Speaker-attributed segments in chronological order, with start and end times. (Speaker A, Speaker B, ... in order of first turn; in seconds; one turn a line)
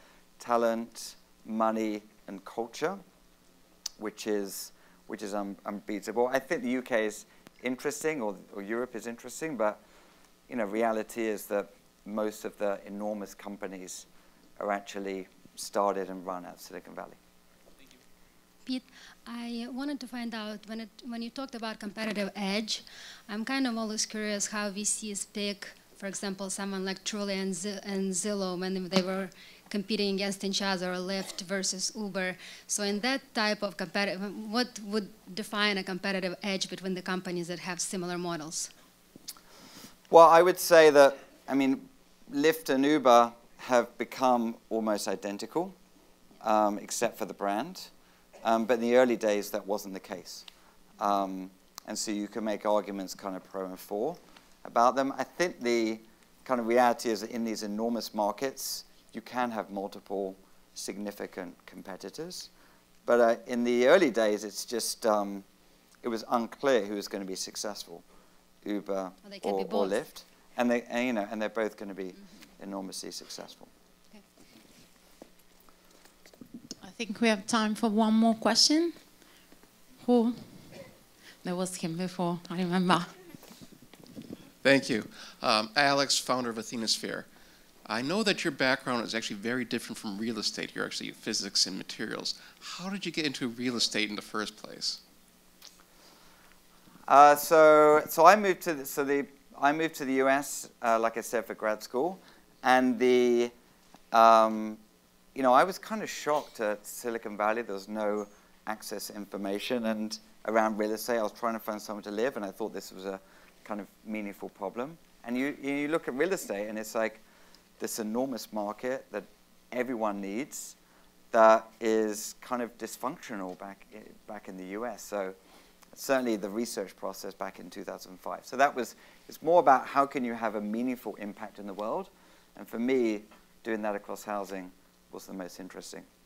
Speaker A: 0.4-3.0
Speaker A: 4.0-9.8
Speaker A: 10.5-14.1
Speaker A: 14.6-17.2
Speaker B: 18.6-38.7
Speaker A: 40.1-45.7
Speaker A: 46.4-47.9
Speaker A: 48.4-50.5
Speaker A: 51.0-62.5
Speaker A: 63.0-65.4
Speaker A: 66.0-68.0
Speaker A: 68.6-73.7
Speaker B: 69.2-70.0
Speaker C: 76.8-78.9
Speaker C: 80.0-80.8
Speaker C: 81.4-83.1
Speaker D: 84.6-87.3
Speaker D: 87.8-95.0
Speaker A: 97.1-103.5
Speaker A: 104.1-104.8
Speaker A: 105.3-117.2
Speaker A: 117.8-120.8
Speaker A: 121.3-125.3
Speaker A: 125.9-136.1